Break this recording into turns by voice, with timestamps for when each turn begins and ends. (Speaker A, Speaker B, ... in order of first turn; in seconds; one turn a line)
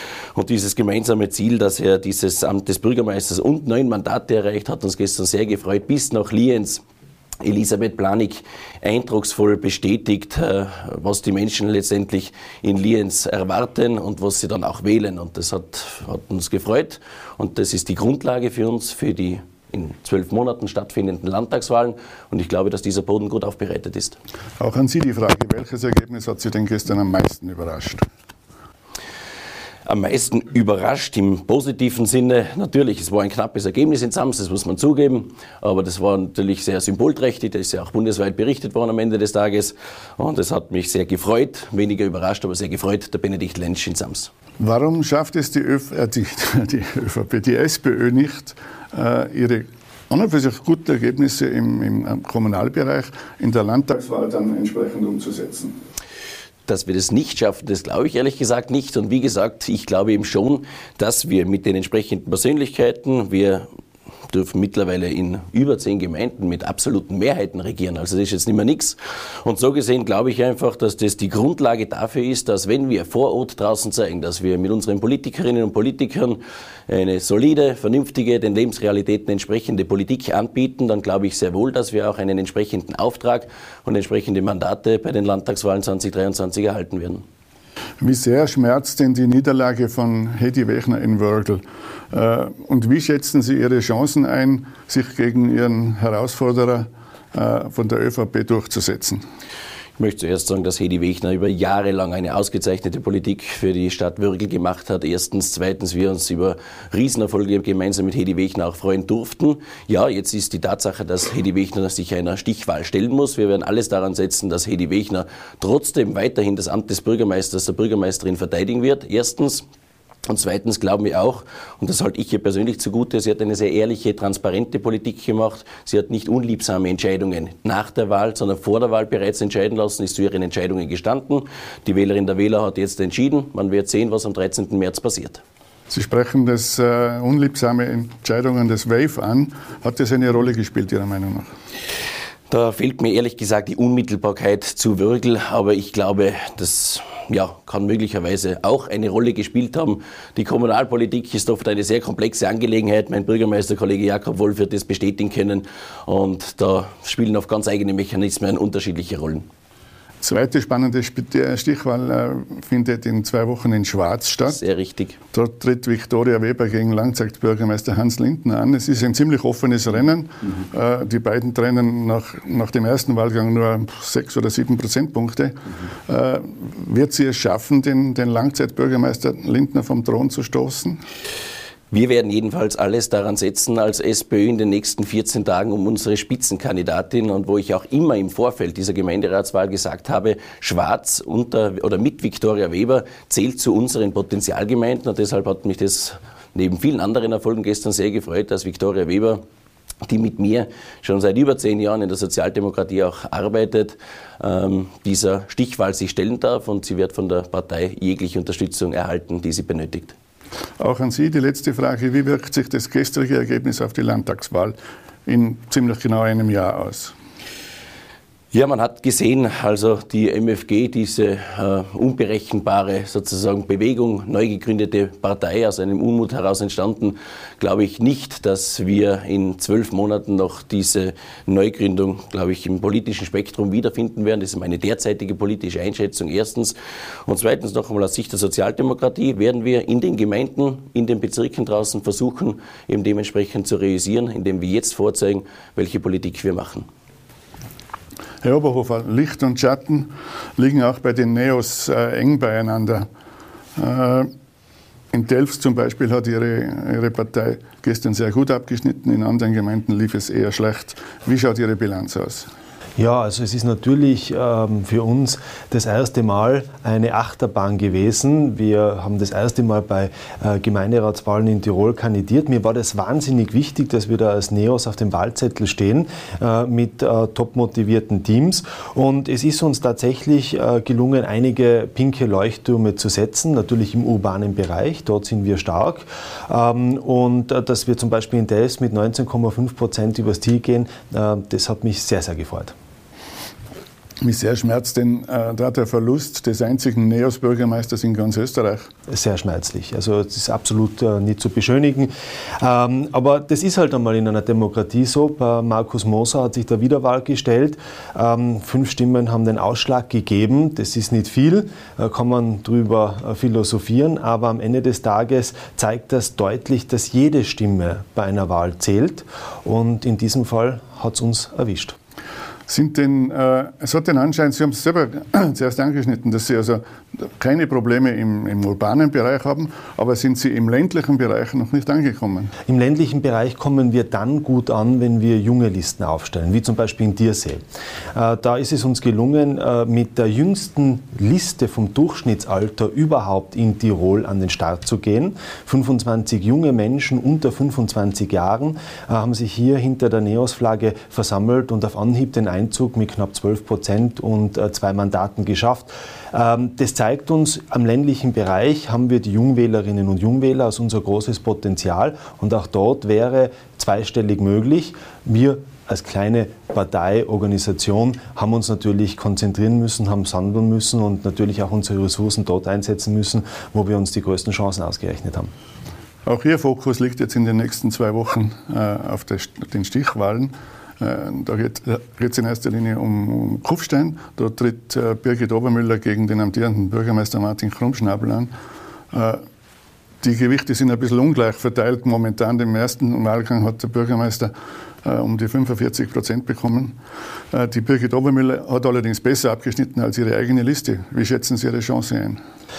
Speaker A: 0.3-6.8
Speaker A: 7.4-24.2
Speaker B: 24.6-28.1
Speaker A: 29.9-44.3
Speaker B: 44.6-55.8
Speaker A: 56.7-63.7
Speaker A: 64.3-87.2
Speaker B: 88.0-99.2
Speaker A: 100.0-119.7
Speaker A: 120.3-135.4
Speaker B: 135.9-141.5
Speaker A: 142.5-159.5
Speaker B: 160.2-164.6
Speaker A: 164.5-165.2
Speaker B: 165.3-181.0
Speaker A: 181.9-199.4
Speaker A: 200.0-210.1
Speaker B: 210.8-217.1
Speaker A: 218.5-246.9
Speaker B: 248.4-253.1
Speaker B: 253.8-254.3
Speaker B: 255.1-262.5
Speaker C: 263.0-292.7
Speaker B: 294.2-298.9
Speaker C: 299.1-322.0
Speaker B: 322.7-332.5
Speaker C: 332.7-337.6
Speaker C: 338.1-375.5
Speaker B: 376.2-388.5
Speaker B: 389.1-389.4
Speaker B: 390.2-397.0
Speaker B: 397.5-402.4